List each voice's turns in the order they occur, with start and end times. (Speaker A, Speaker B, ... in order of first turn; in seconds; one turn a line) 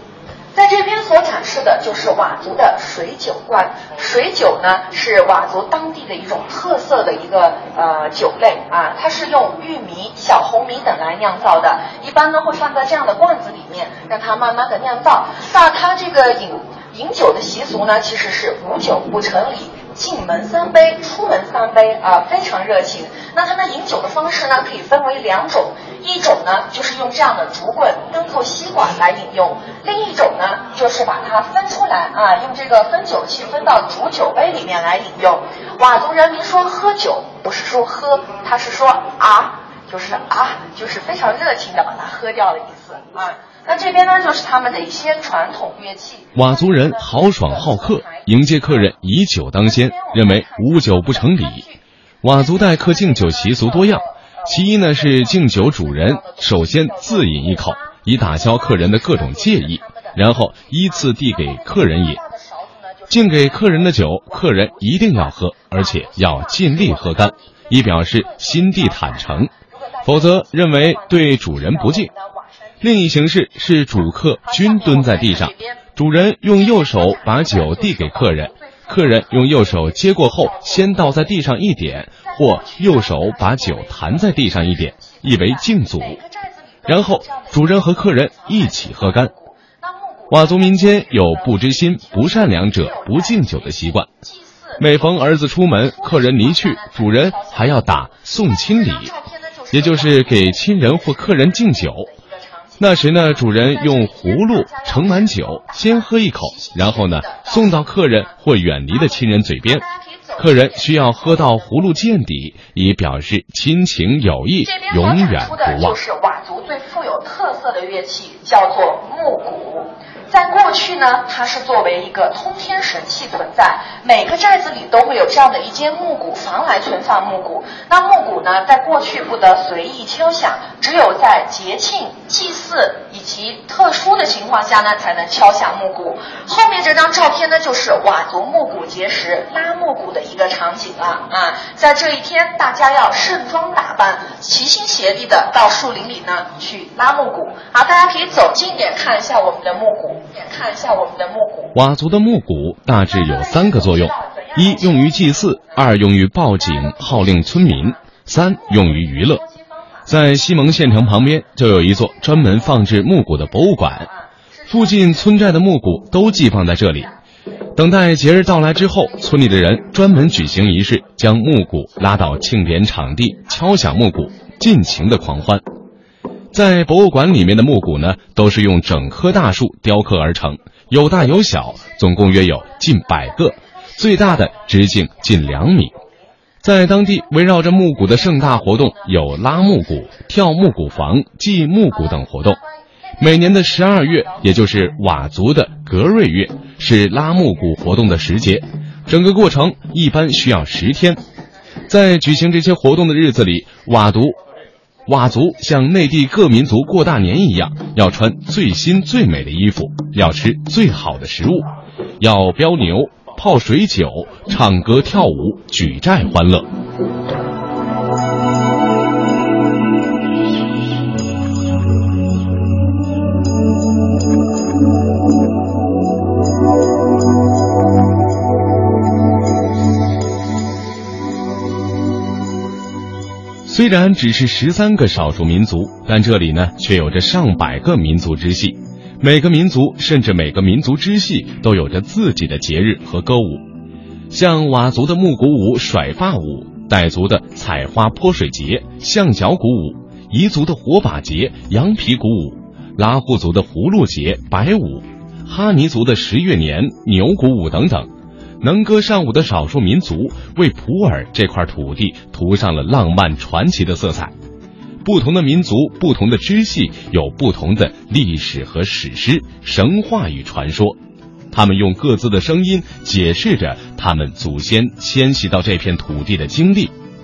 Speaker A: 0.5-48.9
Speaker B: 46.4-51.6
Speaker A: 49.6-51.8
Speaker B: 52.2-62.2
Speaker A: 52.3-72.9
Speaker B: 63.1-69.5
Speaker B: 70.0-72.1
Speaker B: 72.8-86.2
Speaker A: 74.4-75.8
Speaker A: 76.6-81.4
Speaker A: 82.2-108.4
Speaker B: 86.8-89.3
Speaker B: 90.3-94.1
Speaker B: 94.8-99.1
Speaker B: 99.7-102.1
Speaker B: 102.8-109.8
Speaker A: 108.9-112.0
Speaker B: 110.4-116.0
Speaker A: 114.6-151.7
Speaker B: 151.7-159.4
Speaker A: 153.1-156.0
Speaker A: 156.6-161.2
Speaker B: 160.1-164.1
Speaker A: 164.1-165.4
Speaker B: 164.7-167.1
Speaker B: 167.8-175.6
Speaker B: 176.5-185.9
Speaker A: 183.5-184.7
Speaker A: 185.2-186.0
Speaker B: 186.6-192.6
Speaker A: 188.0-190.3
Speaker B: 193.2-201.2
Speaker A: 193.4-194.3
Speaker B: 201.9-204.4
Speaker B: 205.1-216.7
Speaker B: 233.7-243.6
Speaker B: 244.3-258.1
Speaker B: 258.6-264.3
Speaker B: 265.0-271.0
Speaker B: 271.5-276.9